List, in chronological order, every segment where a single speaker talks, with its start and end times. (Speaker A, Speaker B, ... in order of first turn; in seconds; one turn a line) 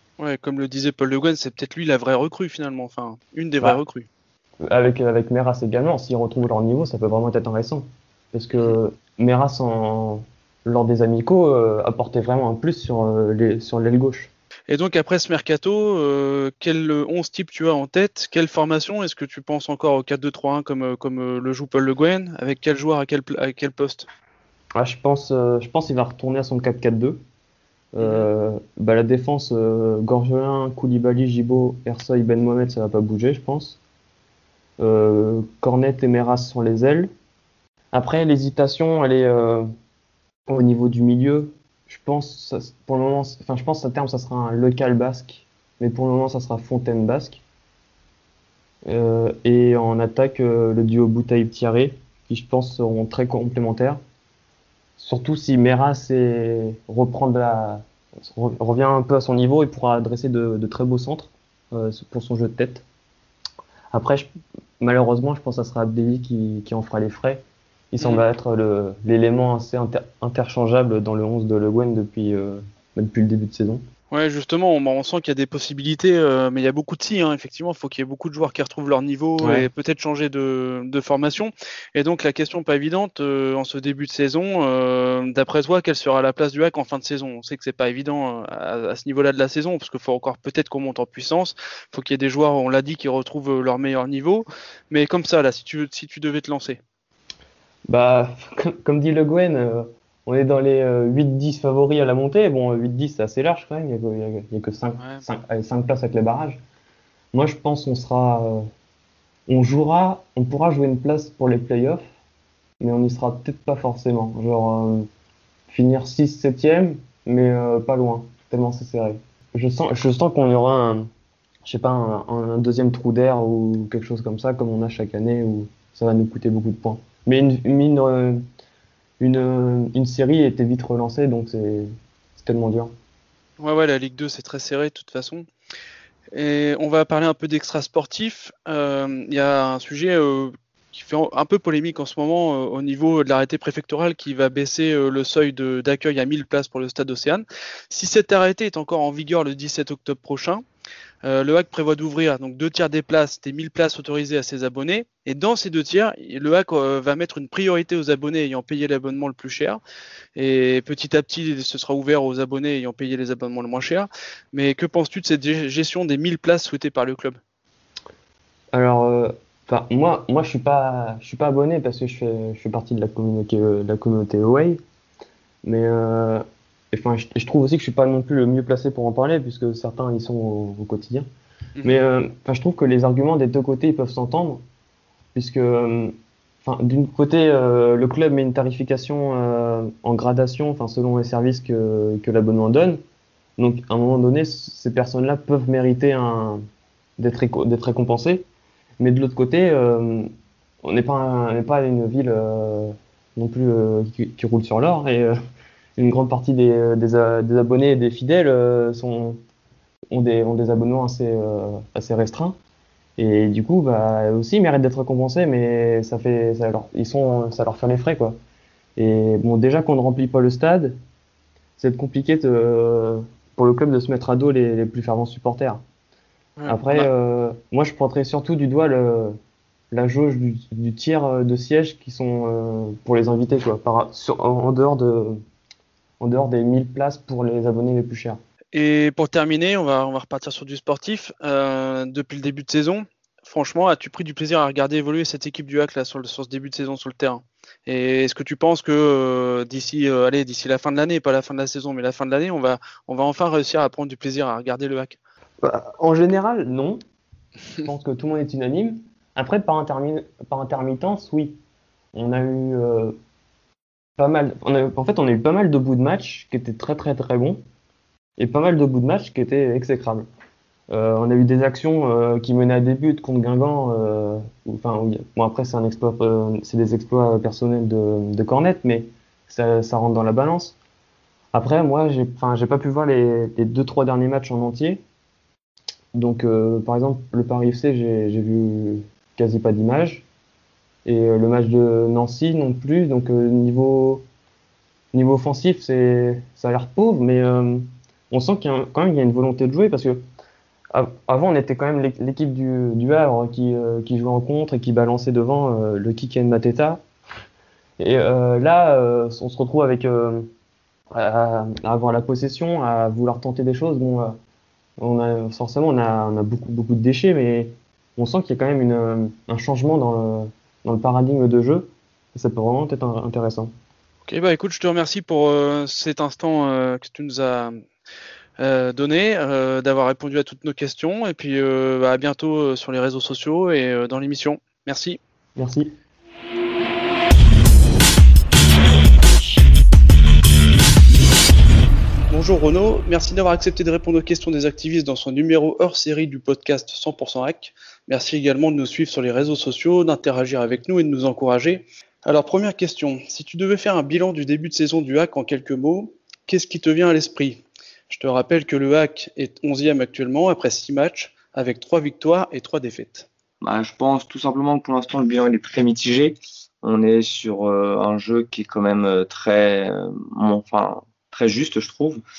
Speaker A: 0.2-4.1
Speaker B: 4.6-14.3
Speaker A: 14.7-24.1
Speaker B: 24.8-27.2
Speaker B: 27.9-33.8
Speaker A: 28.0-28.3
Speaker B: 34.8-37.1
Speaker B: 37.9-39.7
Speaker B: 40.5-47.4
Speaker B: 48.9-54.0
Speaker B: 55.0-62.8
Speaker B: 63.9-64.3
Speaker B: 64.8-73.8
Speaker A: 68.0-68.2
Speaker A: 74.1-96.8
Speaker B: 79.4-79.7
Speaker B: 97.9-106.6
Speaker B: 107.3-108.7
Speaker B: 109.5-112.0
Speaker B: 112.8-115.1
Speaker B: 115.7-121.1
Speaker B: 121.7-128.4
Speaker B: 129.2-132.9
Speaker A: 133.6-135.5
Speaker A: 136.3-150.6
Speaker A: 151.2-159.8
Speaker A: 160.4-167.4
Speaker B: 168.7-174.8
Speaker B: 175.6-181.3
Speaker B: 181.8-184.6
Speaker B: 185.3-193.0
Speaker B: 193.6-196.6
Speaker B: 197.2-198.4
Speaker B: 199.0-200.3
Speaker B: 200.8-205.4
Speaker B: 206.0-209.4
Speaker B: 210.1-212.6
Speaker B: 213.2-218.4
Speaker B: 219.0-221.0
Speaker B: 221.8-225.8
Speaker A: 226.6-227.1
Speaker B: 226.7-229.4
Speaker B: 229.9-235.4
Speaker B: 236.2-238.4
Speaker A: 238.7-255.2
Speaker B: 255.6-257.0
Speaker B: 257.8-261.6
Speaker B: 262.1-263.2
Speaker B: 264.2-267.6
Speaker B: 268.4-270.3
Speaker B: 270.9-280.8
Speaker B: 281.5-285.0
Speaker B: 286.1-290.2
Speaker B: 291.1-294.2
Speaker B: 295.1-300.2
Speaker B: 300.9-307.0
Speaker B: 308.0-310.5
Speaker B: 311.1-314.4
Speaker B: 315.0-323.7
Speaker A: 324.3-327.8
Speaker A: 328.6-335.2
Speaker B: 335.6-335.9
Speaker A: 342.3-363.3
Speaker C: 363.6-372.2